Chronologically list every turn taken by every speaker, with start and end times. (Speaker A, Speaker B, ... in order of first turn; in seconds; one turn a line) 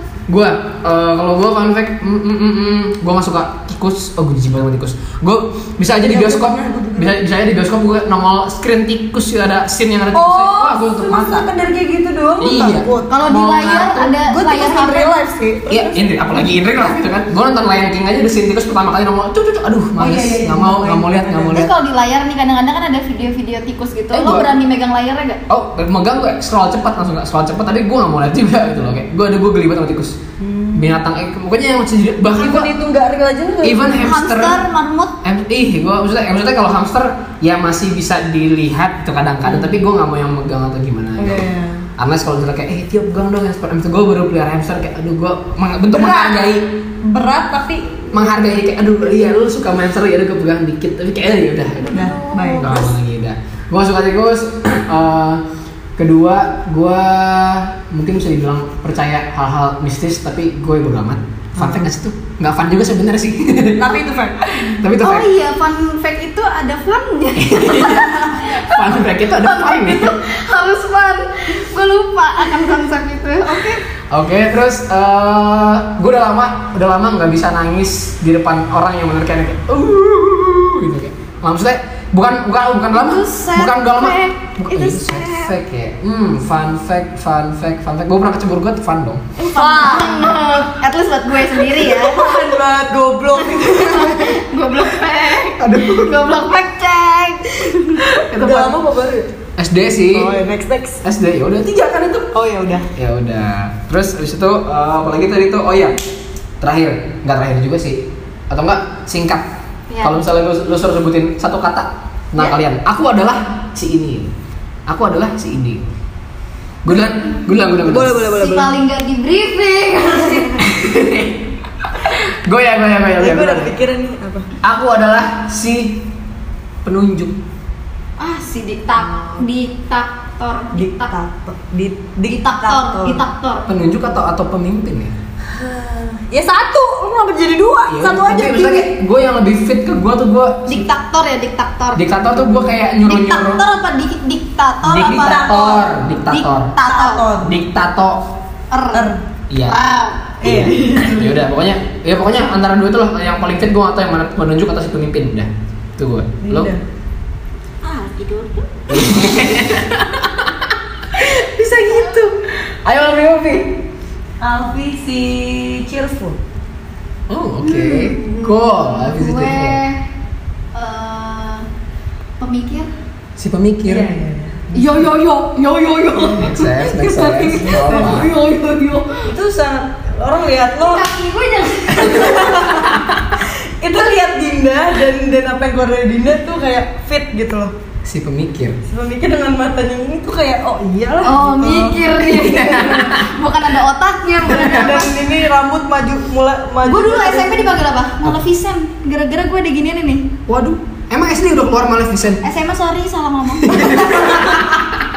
Speaker A: 0.3-11.5
Speaker B: 6.0-7.2
Speaker B: 10.1-13.1
Speaker A: 12.4-14.2
Speaker C: 13.1-15.1
Speaker B: 14.2-16.0
Speaker A: 15.7-21.7
Speaker B: 20.0-21.7
Speaker C: 21.5-25.4
Speaker A: 24.1-24.5
Speaker A: 25.5-30.2
Speaker B: 30.4-31.0
Speaker A: 30.7-32.7
Speaker B: 32.4-33.9
Speaker A: 33.6-34.6
Speaker C: 34.0-35.2
Speaker A: 35.2-46.7
Speaker B: 39.5-39.8
Speaker B: 41.2-41.9
Speaker B: 45.9-48.5
Speaker A: 48.1-55.4
Speaker C: 51.9-52.9
Speaker B: 51.9-52.9
Speaker A: 56.0-65.3
Speaker B: 61.6-61.9
Speaker B: 63.8-64.8
Speaker C: 65.0-73.8
Speaker A: 67.4-70.2
Speaker A: 74.1-89.3
Speaker C: 82.9-85.5
Speaker C: 89.4-92.6
Speaker B: 89.5-90.4
Speaker B: 91.5-94.4
Speaker C: 93.4-98.1
Speaker B: 95.6-96.1
Speaker A: 98.1-98.8
Speaker B: 98.1-99.3
Speaker A: 99.6-100.4
Speaker B: 100.1-101.0
Speaker A: 101.0-102.3
Speaker B: 102.3-102.9
Speaker A: 103.0-106.0
Speaker A: 106.6-109.5
Speaker A: 110.0-114.3
Speaker A: 114.9-115.9
Speaker A: 116.8-118.2
Speaker B: 117.7-118.7
Speaker C: 118.3-120.7
Speaker A: 120.6-123.8
Speaker B: 123.2-124.5
Speaker A: 124.6-126.1
Speaker A: 126.8-127.4
Speaker C: 128.2-131.1
Speaker B: 129.0-129.4
Speaker B: 130.7-133.2
Speaker C: 132.3-133.7
Speaker A: 133.7-135.2
Speaker B: 135.5-138.9
Speaker A: 137.9-140.9
Speaker C: 140.7-142.1
Speaker A: 141.9-143.6
Speaker C: 143.0-145.5
Speaker A: 144.8-146.8
Speaker B: 145.0-145.8
Speaker C: 146.3-147.2
Speaker B: 146.8-147.5
Speaker A: 147.4-148.2
Speaker C: 148.7-149.1
Speaker B: 148.9-149.2
Speaker A: 149.5-149.8
Speaker C: 149.7-151.1
Speaker B: 150.4-151.3
Speaker A: 150.4-156.7
Speaker B: 156.4-156.8
Speaker C: 157.8-158.7
Speaker A: 158.9-163.8
Speaker C: 161.7-162.2
Speaker B: 164.4-166.4
Speaker A: 167.3-169.8
Speaker C: 167.6-170.0
Speaker C: 170.7-171.7
Speaker C: 172.4-172.9
Speaker A: 173.4-174.1
Speaker B: 173.8-175.2
Speaker C: 174.8-179.3
Speaker B: 176.2-176.6
Speaker A: 176.4-178.3
Speaker B: 177.6-178.3
Speaker B: 179.2-181.0
Speaker C: 180.8-182.8
Speaker B: 181.9-187.7
Speaker A: 188.0-188.8
Speaker B: 188.9-193.1
Speaker C: 191.2-195.1
Speaker A: 192.2-193.3
Speaker B: 194.4-197.8
Speaker A: 194.5-194.9
Speaker C: 196.8-200.3
Speaker A: 200.5-202.4
Speaker C: 202.4-204.8
Speaker A: 203.6-204.8